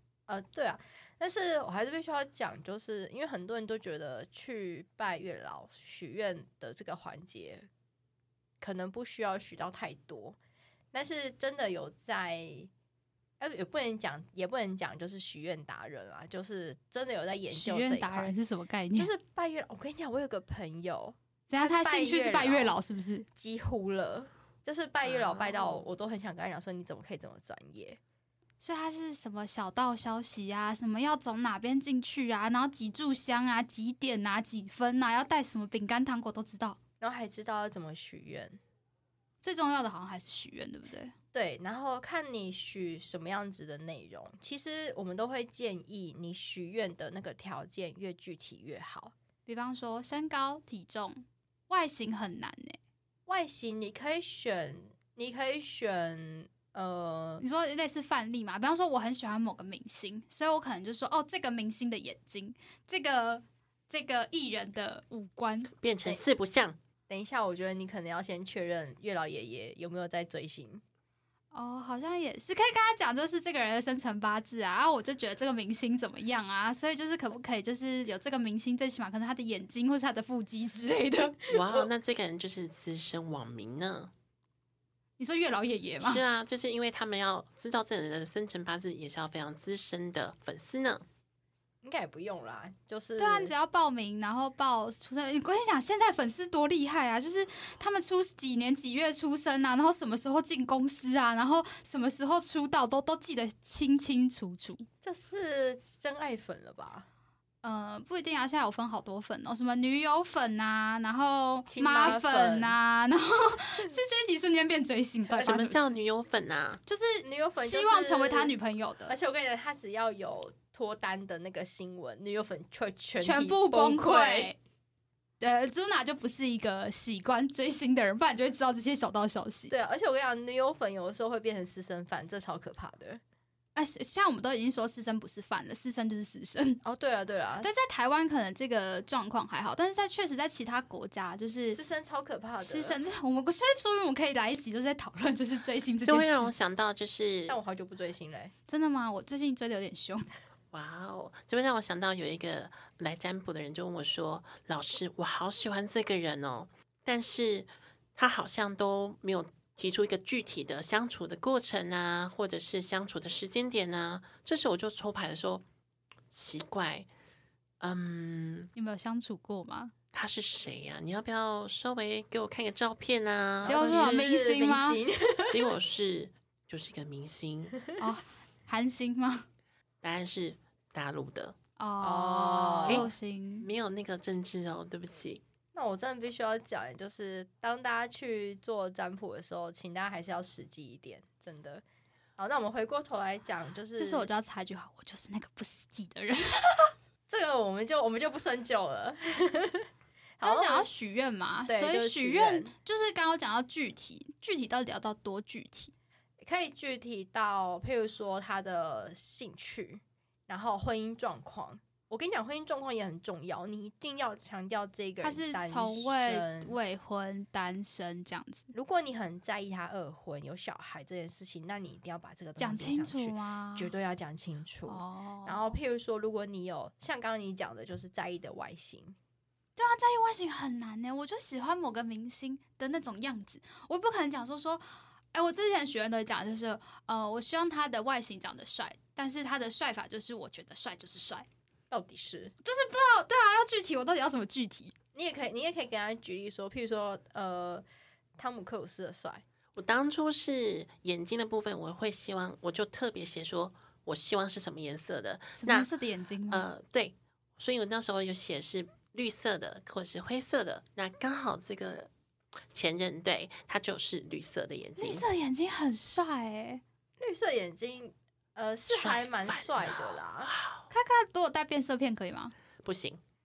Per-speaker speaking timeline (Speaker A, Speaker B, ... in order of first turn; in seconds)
Speaker A: 0.3-7.7, 8.6-10.4, 10.9-12.7, 13.4-18.3, 18.9-22.8, 23.4-28.0, 37.0-38.6, 41.3-49.1, 53.3-57.4, 67.1-70.8, 91.8-93.5, 105.0-107.1, 111.7-112.8, 117.2-118.5, 119.1-124.5, 129.7-133.2, 136.8-137.7, 141.7-143.0, 147.5-148.5, 173.6-175.7, 182.0-183.1, 185.7-191.8, 192.4-194.3, 197.3-199.9, 200.4-200.9, 201.7-202.7, 206.4-216.8, 218.7-229.2, 241.9-242.5, 245.1-247.8, 248.4-249.4, 267.2-270.5
Speaker B: 17.5-19.1, 21.5-23.3, 25.1-25.8, 28.6-36.8, 39.4-41.1, 49.5-52.8, 57.4-65.7, 71.5-81.5, 85.2-86.2, 93.2-104.9, 107.6-115.9, 116.8-119.2, 123.2-124.6, 125.4-129.7, 133.7-136.8, 137.6-141.8, 142.6-146.5, 148.7-150.3, 168.7-169.9, 173.6-175.0, 178.0-179.4, 181.8-183.7, 194.0-196.9, 200.4-205.9, 215.2-218.7, 222.6-223.9, 224.9-225.8, 229.8-241.4, 242.6-244.9, 255.6-256.7, 265.0-266.8, 270.9-272.5
Speaker C: 65.8-66.8, 81.5-84.1, 86.0-91.0, 115.3-116.8, 146.1-147.6, 150.7-165.6, 166.3-167.1, 167.8-168.7, 170.1-174.2, 175.5-177.8, 180.0-181.5, 182.8-185.4, 249.8-255.9, 256.5-262.1, 262.7-265.2, 268.9-270.9, 272.8-273.2